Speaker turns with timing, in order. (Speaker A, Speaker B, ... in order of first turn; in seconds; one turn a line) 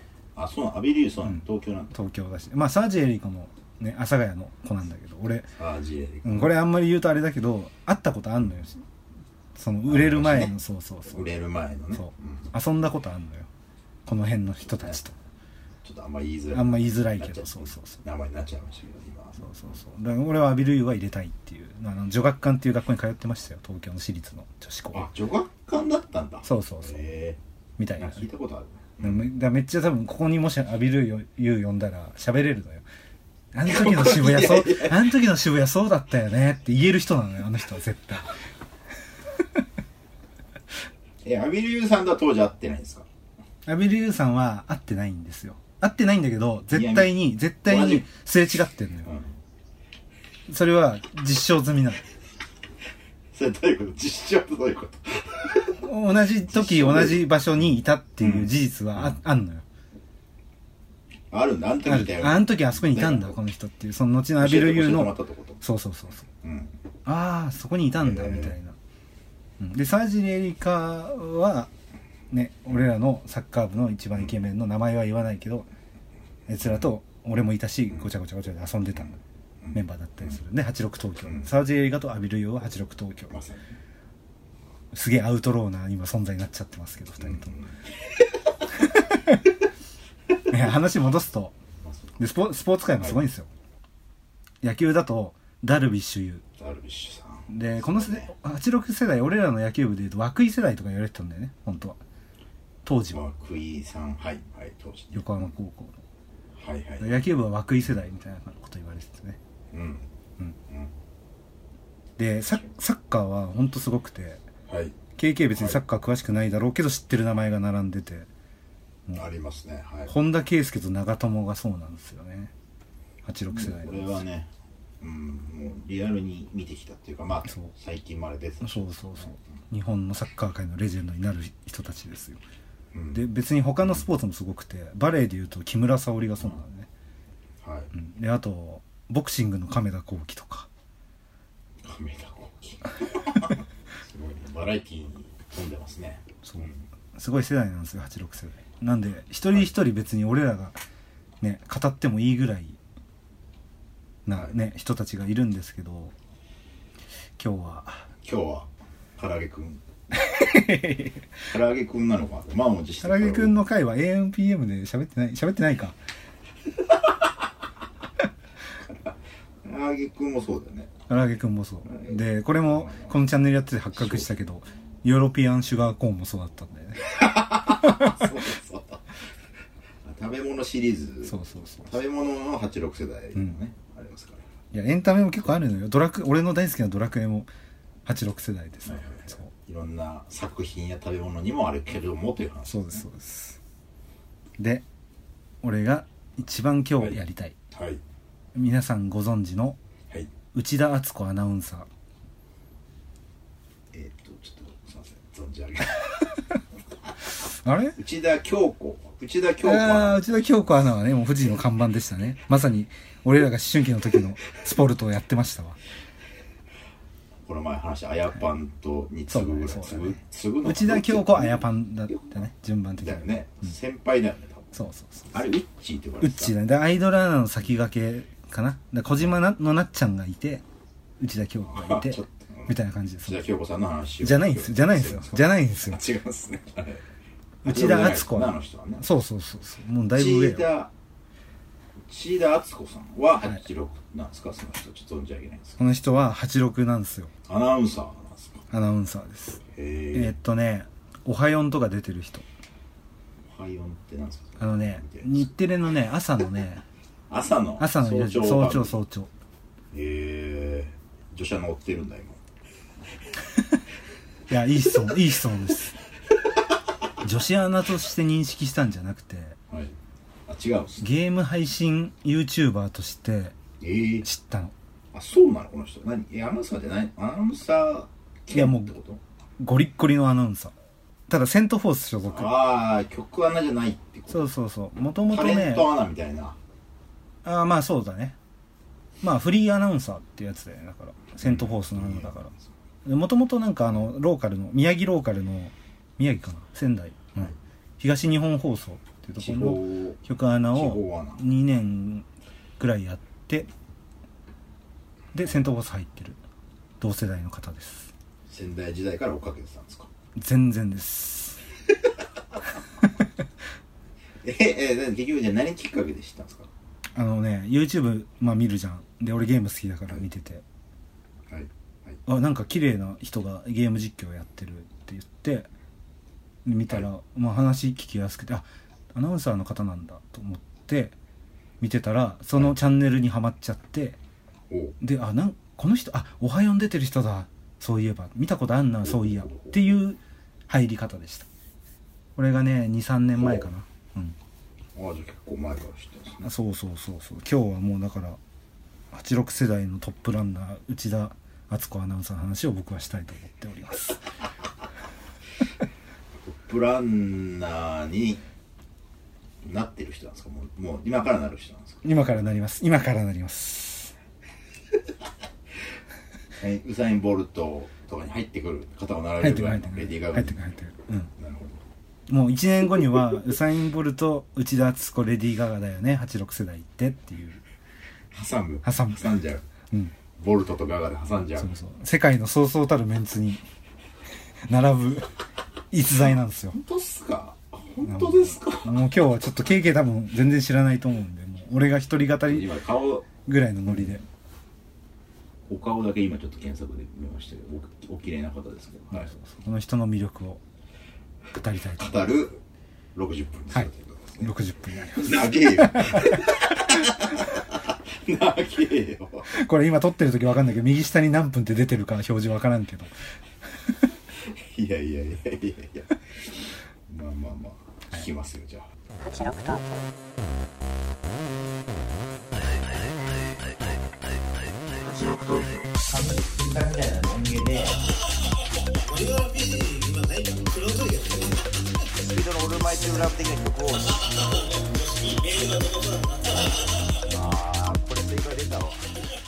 Speaker A: 0.3-1.9
Speaker B: 1.3-5.5
Speaker A: 5.6-6.5
Speaker B: 6.2-8.8
Speaker B: 9.6-11.3
Speaker A: 9.8-10.5
Speaker A: 11.1-12.5
Speaker B: 11.9-13.5
Speaker B: 14.1-15.2
Speaker A: 15.8-19.5
Speaker B: 16.5-18.0
Speaker B: 19.4-25.1
Speaker A: 24.9-27.4
Speaker B: 26.4-27.0
Speaker B: 27.8-28.3
Speaker A: 28.0-29.3
Speaker B: 29.0-32.8
Speaker B: 33.5-38.3
Speaker A: 33.6-35.1
Speaker A: 41.2-43.1
Speaker B: 43.6-49.1
Speaker A: 46.7-48.0
Speaker B: 50.5-52.0
Speaker A: 53.3-55.8
Speaker B: 55.8-59.6
Speaker A: 56.5-57.2
Speaker A: 58.2-59.2
Speaker A: 61.3-63.4
Speaker B: 61.9-66.3
Speaker A: 64.4-65.6
Speaker A: 66.4-66.7
Speaker B: 67.0-68.8
Speaker A: 68.0-68.5
Speaker B: 69.6-71.7
Speaker B: 72.3-75.7
Speaker B: 76.5-79.2
Speaker A: 79.6-80.3
Speaker B: 79.7-83.3
Speaker A: 83.3-83.7
Speaker B: 84.9-87.5
Speaker A: 87.2-87.9
Speaker B: 88.7-89.5
Speaker B: 90.5-91.5
Speaker A: 91.8-92.2
Speaker B: 92.2-93.5
Speaker B: 94.6-96.4
Speaker A: 96.6-98.3
Speaker B: 97.5-102.0
Speaker B: 102.8-103.2
Speaker A: 103.1-105.3
Speaker B: 105.1-106.0
Speaker A: 106.5-107.2
Speaker B: 107.0-109.4
Speaker A: 109.7-110.1
Speaker B: 112.2-114.4
Speaker A: 114.7-114.9
Speaker B: 115.2-118.3
Speaker A: 115.5-115.8
Speaker A: 119.1-120.1
Speaker B: 120.1-122.5
Speaker B: 123.2-124.2
Speaker A: 123.5-124.5
Speaker A: 125.0-129.3
Speaker B: 128.6-132.4
Speaker A: 132.9-133.2
Speaker B: 133.1-136.9
Speaker A: 137.6-137.9
Speaker B: 137.9-140.7
Speaker A: 141.8-146.8
Speaker B: 146.4-150.8
Speaker B: 151.4-152.8
Speaker B: 154.2-156.1
Speaker B: 157.4-158.1
Speaker A: 158.2-159.8
Speaker B: 160.1-161.3
Speaker A: 161.5-163.5
Speaker B: 163.0-166.0
Speaker A: 168.8-170.9
Speaker B: 171.1-178.3
Speaker A: 171.9-173.1
Speaker A: 173.9-174.3
Speaker A: 177.0-179.2
Speaker A: 180.0-184.4
Speaker B: 181.2-181.9
Speaker B: 184.7-187.5
Speaker B: 188.1-189.5
Speaker A: 188.8-193.0
Speaker B: 192.7-193.6
Speaker B: 194.6-194.8
Speaker B: 195.6-197.6
Speaker A: 197.7-198.0
Speaker B: 198.5-199.8
Speaker B: 200.5-201.9
Speaker A: 203.9-206.3
Speaker B: 207.6-207.9
Speaker A: 208.0-210.2
Speaker B: 209.6-215.8
Speaker A: 217.4-222.3
Speaker B: 219.3-223.7
Speaker A: 223.0-226.5
Speaker B: 224.7-225.4
Speaker B: 226.2-230.6
Speaker B: 231.2-233.4
Speaker A: 231.7-232.7
Speaker A: 233.2-237.0
Speaker B: 234.2-236.0
Speaker B: 237.6-240.7
Speaker A: 237.6-239.0
Speaker A: 240.1-240.9
Speaker A: 242.1-245.8
Speaker B: 245.8-247.3
Speaker A: 247.5-248.6
Speaker B: 248.7-249.6
Speaker A: 249.6-250.3
Speaker B: 250.1-252.4
Speaker A: 253.4-255.4
Speaker B: 254.6-256.8
Speaker A: 257.3-259.0
Speaker B: 257.8-259.3
Speaker A: 259.9-262.4
Speaker B: 264.5-265.9
Speaker B: 267.2-269.6
Speaker A: 270.5-271.1
Speaker B: 271.0-273.6
Speaker A: 273.8-274.2
Speaker B: 274.2-274.7
Speaker A: 275.1-279.2
Speaker B: 278.5-278.9
Speaker B: 279.6-280.7
Speaker B: 281.3-282.5
Speaker A: 282.3-284.5
Speaker B: 284.3-285.9
Speaker A: 285.3-286.6
Speaker B: 287.4-288.4
Speaker B: 289.2-292.5
Speaker A: 291.4-292.6
Speaker B: 293.1-302.3
Speaker A: 299.4-300.2
Speaker A: 300.7-301.4
Speaker B: 302.8-303.7
Speaker B: 305.3-306.4
Speaker B: 307.0-308.1
Speaker A: 308.5-310.1
Speaker B: 310.4-311.6
Speaker A: 314.4-316.7
Speaker B: 317.1-320.6
Speaker A: 321.5-322.2
Speaker B: 322.2-325.7
Speaker B: 326.6-331.1
Speaker B: 331.8-334.2
Speaker A: 334.7-334.9
Speaker B: 335.0-341.5
Speaker A: 339.0-339.8
Speaker B: 342.4-344.4
Speaker A: 343.4-343.7
Speaker A: 344.9-346.5
Speaker B: 346.4-348.4
Speaker B: 349.1-354.2
Speaker A: 356.4-358.4
Speaker A: 359.6-362.0
Speaker B: 362.0-364.1
Speaker A: 366.6-370.6
Speaker B: 369.4-371.3
Speaker A: 371.4-371.8
Speaker B: 372.3-377.6
Speaker A: 378.3-379.6
Speaker B: 378.8-379.3
Speaker A: 380.4-381.7
Speaker B: 381.6-383.6
Speaker B: 384.7-385.3
Speaker B: 385.9-386.8
Speaker A: 386.7-388.9
Speaker B: 388.0-392.7
Speaker A: 392.5-393.3
Speaker B: 393.4-394.2
Speaker A: 393.9-394.2
Speaker A: 395.7-399.3
Speaker B: 399.1-400.6
Speaker B: 401.5-402.2
Speaker A: 402.0-402.6
Speaker A: 403.1-409.5
Speaker B: 404.4-406.4
Speaker B: 409.5-413.1
Speaker A: 414.4-418.9
Speaker A: 425.1-428.0
Speaker C: 428.9-431.6
Speaker A: 432.1-434.1
Speaker C: 433.9-437.2
Speaker A: 437.3-439.0